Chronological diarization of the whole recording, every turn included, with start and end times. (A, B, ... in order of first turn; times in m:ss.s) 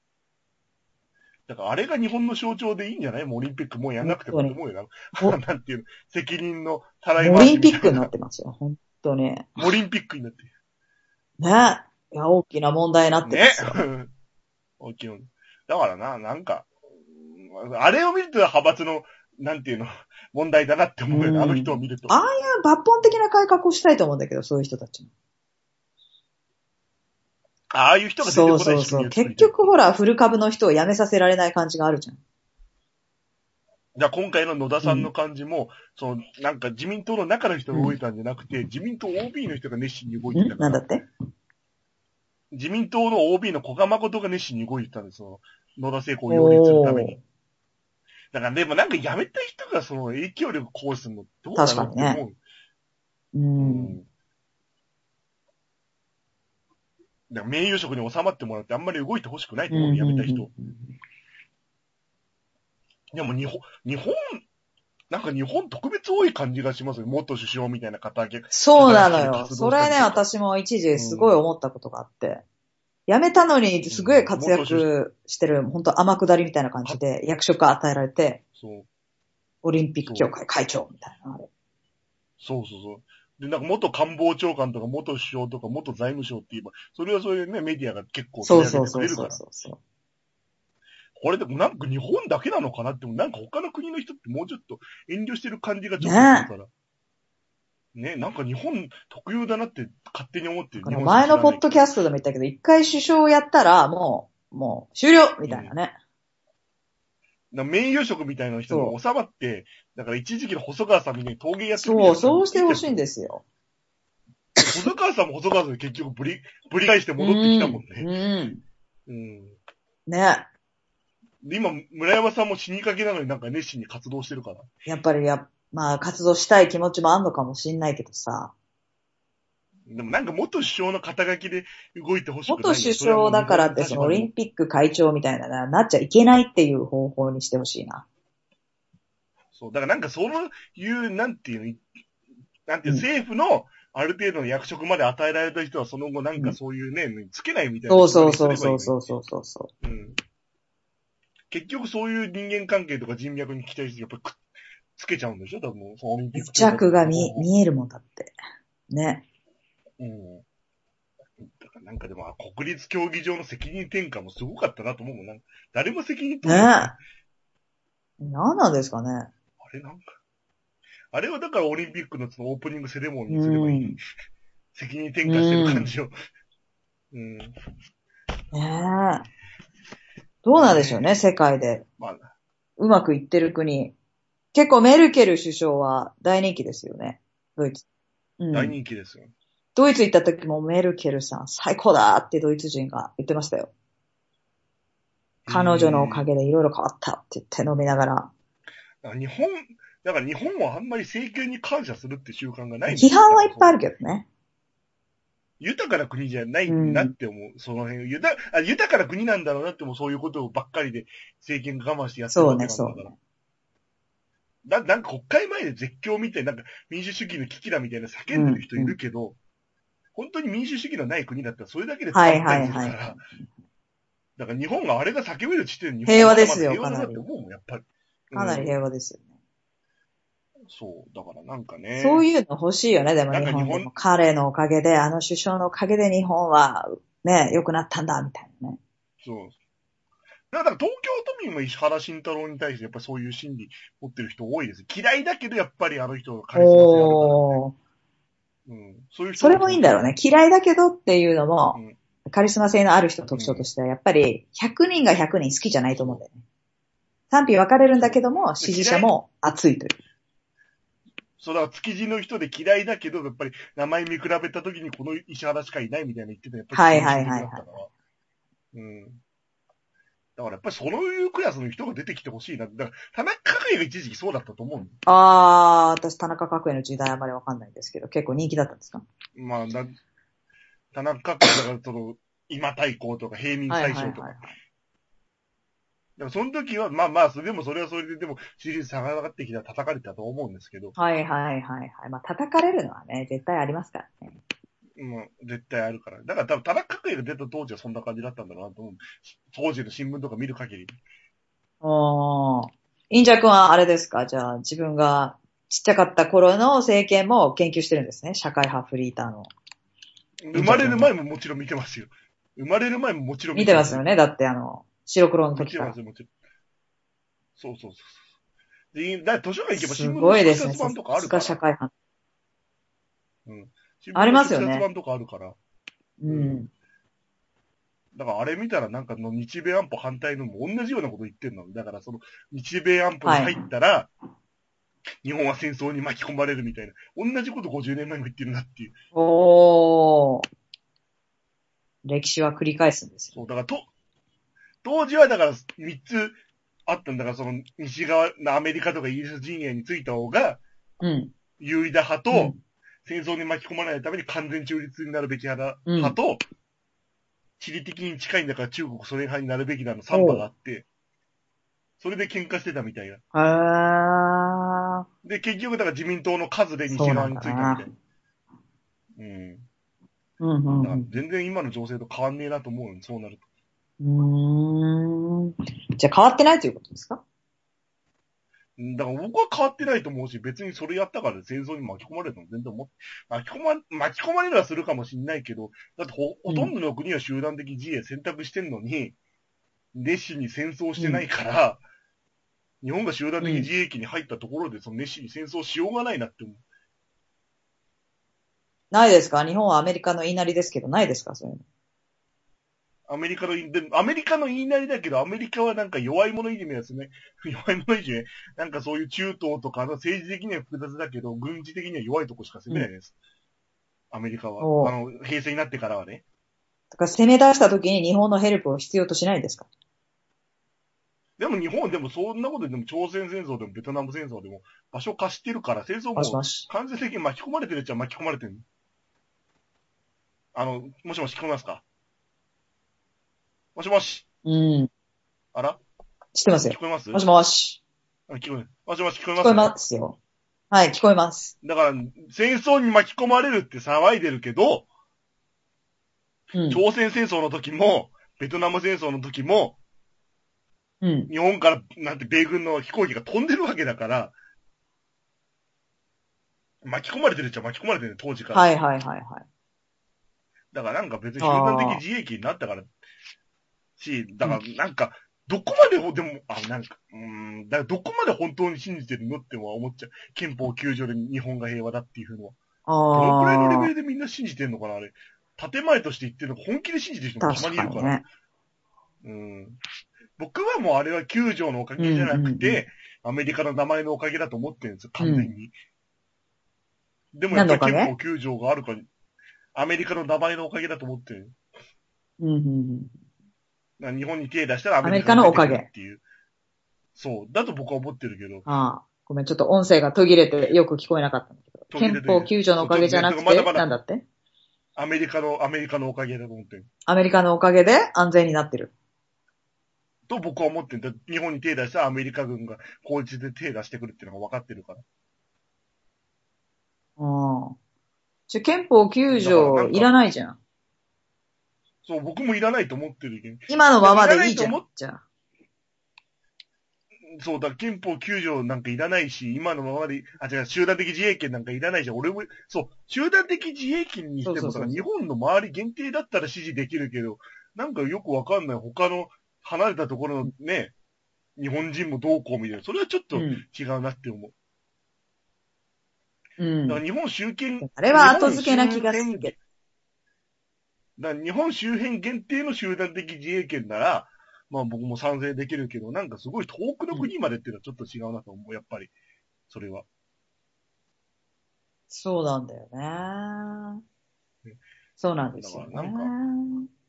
0:01.5-0:08.1 A
0:04.0-0:04.6 B
0:07.2-0:09.7 B
0:09.6-0:10.5 A
0:11.4-0:13.8 B
0:13.2-0:14.1 A
0:14.8-0:22.2 A
0:21.1-0:25.1 B
0:27.7-0:29.7 A
0:28.2-0:32.2 B
0:34.0-0:40.8 A
0:34.8-0:35.1 B
0:40.3-0:41.0 B
0:42.5-0:47.2 A
0:46.3-0:47.2 B
0:48.3-0:52.4 A
0:51.5-0:52.2 B
0:53.3-0:54.0 B
0:53.6-0:54.1 A
0:57.3-1:00.5 A
0:59.7-1:00.9 B
1:03.1-1:04.4 A
1:05.1-1:10.2 A
1:08.5-1:12.4 B
1:10.9-1:11.4 A
1:13.1-1:18.4 B
1:13.9-1:14.9 A
1:18.6-1:18.9 A
1:19.6-1:21.5 B
1:20.0-1:20.3 A
1:22.4-1:29.4 A
1:28.4-1:29.8 B
1:31.2-1:36.7 A
1:36.0-1:36.5 B
1:37.9-1:41.9 A
1:40.8-1:45.9 B
1:45.4-1:45.7 A
1:47.5-1:53.0 A
1:48.7-1:49.0 B
1:51.8-1:53.4 B
1:54.6-1:58.1 A
1:57.2-1:58.6 B
1:59.1-1:59.6 A
2:00.1-2:00.5 B
2:01.4-2:04.7 A
2:04.8-2:08.5 B
2:09.9-2:14.3 A
2:12.5-2:18.0 B
2:19.5-2:21.8 A
2:22.7-2:29.0 A
2:27.9-2:29.7 B
2:29.8-2:30.2 A
2:31.5-2:34.4 A
2:35.0-2:37.5 A
2:36.3-2:38.3 B
2:38.9-2:39.2 B
2:40.0-2:40.4 A
2:41.4-2:47.0 A
2:46.4-2:46.9 B
2:48.2-2:49.3 B
2:49.6-2:50.1 A
2:51.1-2:54.0 A
2:53.3-2:54.0 B
2:54.7-2:56.1 A
2:55.2-2:55.9 B
2:57.1-2:57.5 A
2:58.5-2:59.3 B
3:00.4-3:01.8 B
3:00.5-3:01.2 A
3:02.0-3:02.3 A
3:02.8-3:03.9 B
3:04.5-3:07.8 B
3:08.4-3:08.7 B
3:08.5-3:09.3 A
3:09.7-3:13.7 B
3:15.4-3:16.3 A
3:15.5-3:18.3 B
3:19.0-3:23.8 A
3:22.9-3:24.2 B
3:25.6-3:33.1 A
3:26.7-3:27.1 B
3:32.3-3:33.1 B
3:34.6-3:39.4 A
3:38.3-3:39.0 B
3:40.1-3:43.2 A
3:42.1-3:43.5 B
3:44.4-3:48.8 A
3:46.1-3:47.2 B
3:48.3-3:49.2 B
3:50.7-3:52.2 A
3:52.0-3:58.8 B
3:53.3-3:53.9 A
3:59.2-3:59.5 A
4:00.5-4:07.6 A
4:06.6-4:07.7 B
4:08.7-4:10.1 A
4:09.4-4:16.4 B
4:13.3-4:13.6 A
4:15.9-4:16.2 A
4:17.3-4:20.0 B
4:18.0-4:19.1 A
4:21.4-4:27.9 A
4:26.7-4:27.7 B
4:28.7-4:29.2 A
4:30.4-4:35.0 A
4:35.0-4:39.0 B
4:39.4-4:39.9 A
4:40.9-4:44.4 A
4:43.7-4:44.6 B
4:46.2-4:50.9 A
4:51.0-4:54.4 B
4:55.0-5:00.9 A
5:01.8-5:09.5 B
5:10.4-5:14.0 A
5:10.5-5:11.1 B
5:13.5-5:15.9 B
5:15.5-5:16.3 A
5:17.6-5:18.2 A
5:18.9-5:21.6 A
5:19.7-5:21.9 B
5:23.4-5:25.6 A
5:24.1-5:24.8 B
5:26.2-5:26.7 B
5:26.3-5:26.6 A
5:28.1-5:34.1 A
5:33.2-5:33.6 B
5:35.2-5:39.0 A
5:39.1-5:40.4 B
5:42.0-5:43.4 B
5:43.3-5:43.9 A
5:44.8-5:46.4 A
5:46.9-5:50.6 A
5:51.0-5:51.3 B
5:51.6-5:52.5 A
5:52.3-5:52.6 B
5:53.0-5:56.4 A
5:55.9-5:56.2 B
5:57.6-6:00.8 A
6:00.1-6:00.4 B
6:02.0-6:03.2 A
6:03.3-6:05.0 B
6:05.2-6:07.9 A
6:06.9-6:07.9 B
6:09.2-6:09.6 A
6:10.4-6:11.1 B
6:10.8-6:13.4 A
6:14.0-6:17.2 B
6:18.8-6:29.2 A
6:29.9-6:31.8 A
6:31.0-6:31.2 B
6:32.8-6:36.6 A
6:33.4-6:33.7 B
6:38.9-6:41.6 B
6:43.1-6:53.1 A
6:54.1-6:56.2 A
6:54.6-6:54.9 B
6:56.9-6:59.7 B
7:01.4-7:08.6 A
7:06.1-7:06.7 B
7:10.5-7:11.8 A
7:13.7-7:14.2 A
7:14.4-7:14.9 B
7:15.5-7:15.8 A
7:16.3-7:17.8 B
7:16.6-7:17.2 A
7:18.3-7:19.7 A
7:19.4-7:20.2 B
7:20.7-7:21.5 B
7:21.6-7:24.9 A
7:26.5-7:26.8 B
7:26.7-7:29.8 A
7:31.0-7:31.3 B
7:31.3-7:34.3 A
7:36.8-7:38.7 A
7:38.5-7:39.4 B
7:40.7-7:42.9 A
7:41.4-7:42.0 B
7:44.0-7:52.6 A
7:52.8-7:53.9 B
7:53.1-7:58.2 A
7:57.4-7:58.2 B
7:59.2-7:59.8 A
8:00.4-8:05.7 A
8:02.0-8:02.8 B
8:05.2-8:05.5 B
8:07.3-8:09.1 A
8:07.5-8:08.1 B
8:09.7-8:11.6 A
8:12.4-8:13.1 B
8:14.0-8:16.2 A
8:15.0-8:15.9 B
8:17.2-8:18.6 A
8:18.7-8:24.2 B
8:21.9-8:23.9 A
8:25.0-8:26.9 A
8:27.1-8:28.9 B
8:30.3-8:35.0 A
8:37.2-8:37.8 B
8:38.5-8:40.6 B
8:39.3-8:40.1 A
8:42.0-8:44.8 A
8:43.7-8:45.2 B
8:47.3-9:00.9 A
8:54.4-8:55.0 B
9:01.6-9:04.5 A
9:03.3-9:03.6 B
9:06.6-9:07.0 B
9:06.9-9:09.6 A
9:07.8-9:09.5 B
9:11.2-9:19.1 A
9:19.7-9:20.0 A
9:22.1-9:24.0 B
9:25.2-9:26.9 B
9:25.6-9:26.3 A